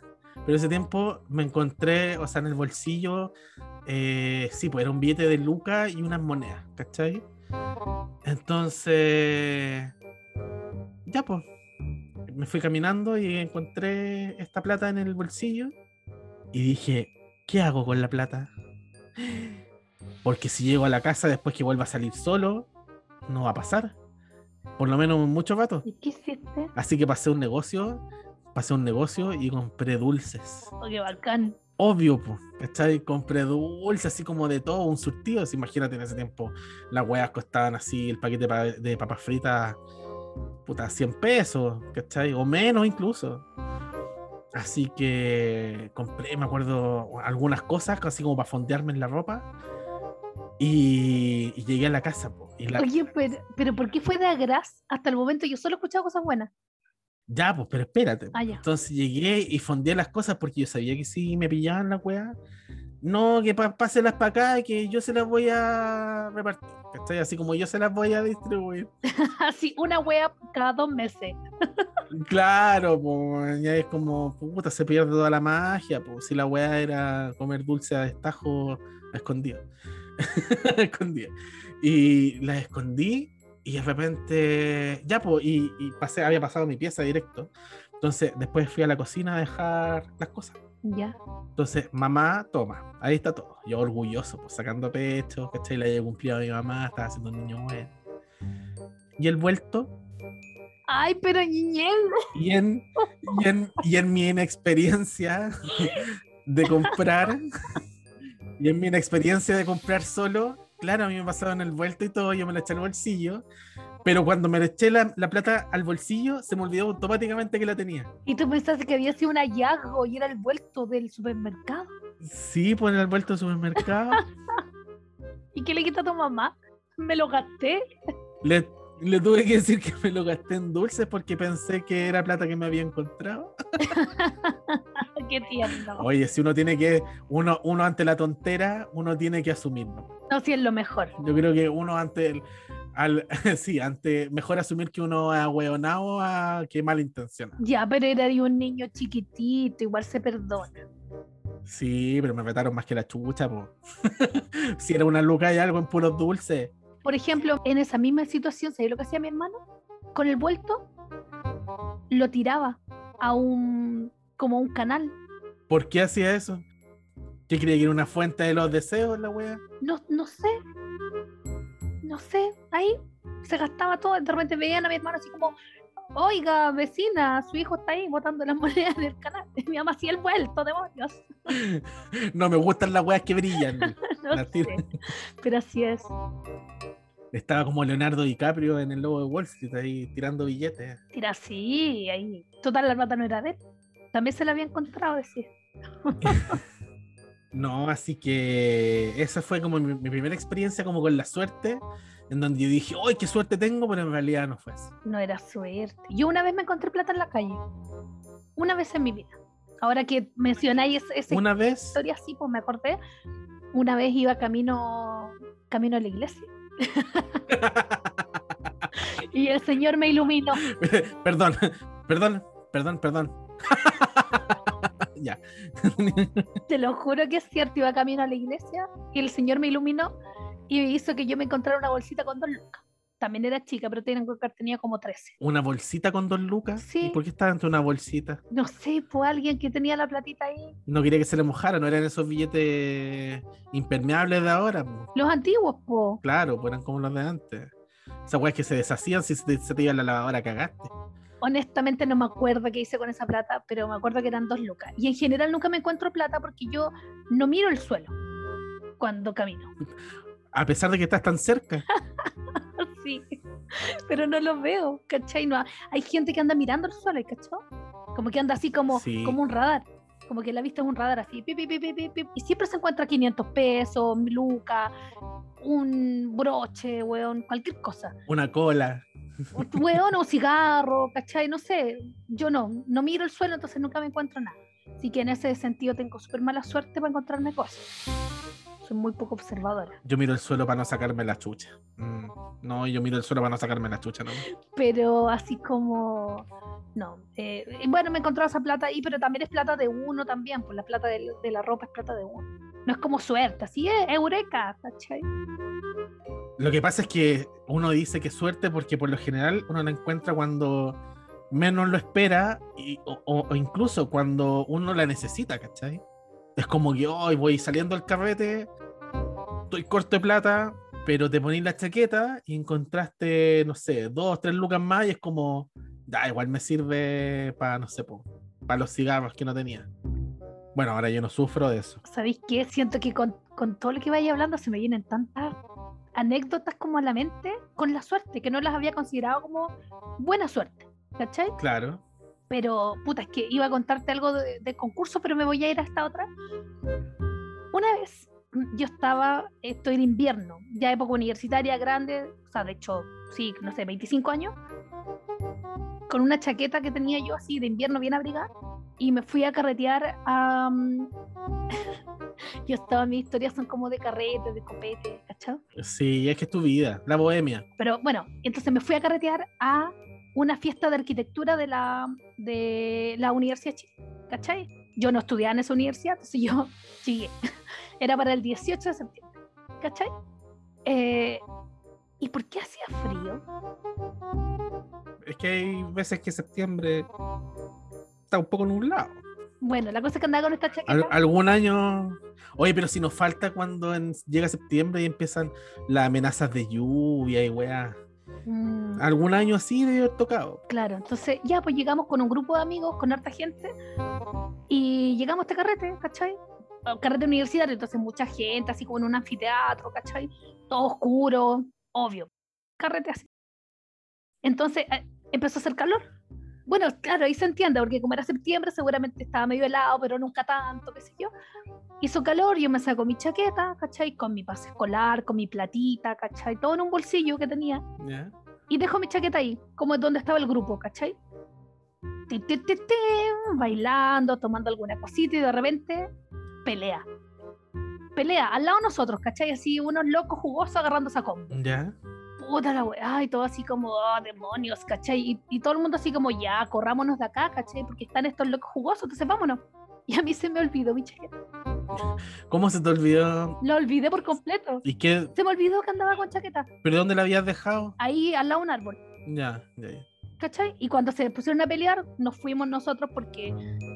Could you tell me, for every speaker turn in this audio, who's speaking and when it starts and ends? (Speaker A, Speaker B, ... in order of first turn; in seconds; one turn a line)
Speaker A: 0.4-3.3
Speaker A: 3.9-7.2
Speaker A: 8.2-9.9
Speaker A: 11.1-11.5
Speaker A: 12.3-15.7
Speaker A: 16.5-18.5
Speaker A: 19.2-19.6
Speaker A: 20.2-22.7
Speaker A: 23.3-23.9
Speaker A: 24.8-25.9
Speaker B: 25.8-26.7
Speaker A: 26.7-30.7
Speaker B: 30.8-31.6
Speaker A: 31.8-39.8
Speaker A: 40.6-43.4
Speaker A: 44.5-49.5
Speaker A: 50.6-52.9
Speaker B: 52.7-56.5
Speaker A: 57.3-62.4
Speaker B: 58.3-58.6
Speaker A: 63.0-68.9
Speaker B: 69.2-71.8
Speaker A: 72.1-79.6
Speaker A: 80.2-90.6
Speaker B: 90.8-91.2
Speaker A: 91.5-97.9
Speaker A: 99.2-99.9
Speaker B: 100.9-102.0
Speaker A: 102.3-107.4
Speaker A: 108.6-113.4
Speaker A: 114.0-118.1
Speaker B: 118.2-121.9
Speaker A: 122.2-124.2
Speaker B: 125.5-127.8
Speaker A: 128.4-133.5
Speaker B: 133.8-136.1
Speaker A: 136.0-140.1
Speaker B: 140.3-141.1
Speaker A: 141.2-147.6
Speaker B: 147.6-150.8
Speaker A: 151.7-156.7
Speaker B: 157.0-159.6
Speaker B: 160.1-160.8
Speaker B: 162.1-165.2
Speaker A: 165.7-166.7
Speaker A: 167.5-169.6
Speaker B: 169.8-170.5
Speaker B: 172.0-175.6
Speaker B: 176.1-181.3
Speaker A: 181.5-184.8
Speaker B: 183.8-184.8
Speaker B: 185.4-186.1
Speaker A: 187.3-191.0
Speaker B: 191.1-193.6
Speaker B: 194.1-195.5
Speaker B: 196.0-196.6
Speaker A: 196.2-196.6
Speaker A: 197.5-204.9
Speaker B: 205.0-207.6
Speaker B: 208.6-213.0
Speaker A: 211.3-212.0
Speaker B: 213.7-217.4
Speaker A: 217.5-218.2
Speaker B: 219.0-220.6
Speaker A: 220.6-226.4
Speaker B: 226.7-230.1
Speaker B: 230.7-235.4
Speaker A: 235.4-238.4
Speaker B: 236.8-237.2
Speaker B: 238.5-240.8
Speaker A: 240.9-245.1
Speaker B: 245.1-246.2
Speaker A: 246.2-247.7
Speaker A: 248.3-250.9
Speaker B: 251.4-258.1
Speaker B: 259.0-259.7
Speaker A: 260.5-261.8
Speaker B: 261.9-274.9
Speaker A: 268.9-269.4
Speaker B: 275.6-278.1
Speaker A: 278.3-280.0
Speaker B: 279.5-287.9
Speaker B: 288.8-290.0
Speaker A: 290.0-294.4
Speaker B: 294.6-305.2
Speaker A: 306.6-311.0
Speaker A: 311.5-316.0
Speaker A: 316.6-318.7
Speaker A: 319.7-329.9
Speaker A: 330.7-332.0
Speaker B: 332.0-335.6
Speaker B: 336.1-341.5
Speaker A: 341.6-342.0
Speaker B: 342.5-346.3
Speaker B: 347.7-354.5
Speaker B: 356.1-358.5
Speaker B: 359.0-361.1
Speaker B: 362.6-365.6
Speaker A: 365.8-367.6
Speaker B: 367.8-377.4
Speaker B: 378.0-380.1
Speaker B: 380.9-381.4
Speaker B: 382.2-383.4
Speaker A: 385.2-387.1
Speaker A: 388.3-389.2
Speaker B: 389.6-391.1
Speaker A: 390.9-398.0
Speaker B: 398.4-399.1
Speaker A: 399.0-400.6
Speaker B: 400.7-403.7
Speaker B: 404.7-413.3
Speaker B: 414.4-416.0
Speaker B: 416.7-421.3
Speaker B: 422.0-427.8
Speaker A: 428.0-428.3
Speaker B: 428.7-431.1
Speaker B: 432.3-436.1
Speaker B: 436.6-437.1
Speaker B: 438.1-441.5
Speaker A: 441.5-442.0
Speaker B: 442.4-451.3
Speaker A: 451.9-453.6
Speaker B: 453.6-454.8
Speaker A: 454.8-455.3
Speaker B: 455.3-456.7
Speaker A: 456.8-457.9
Speaker B: 458.0-459.0
Speaker A: 459.2-460.1
Speaker B: 460.4-463.5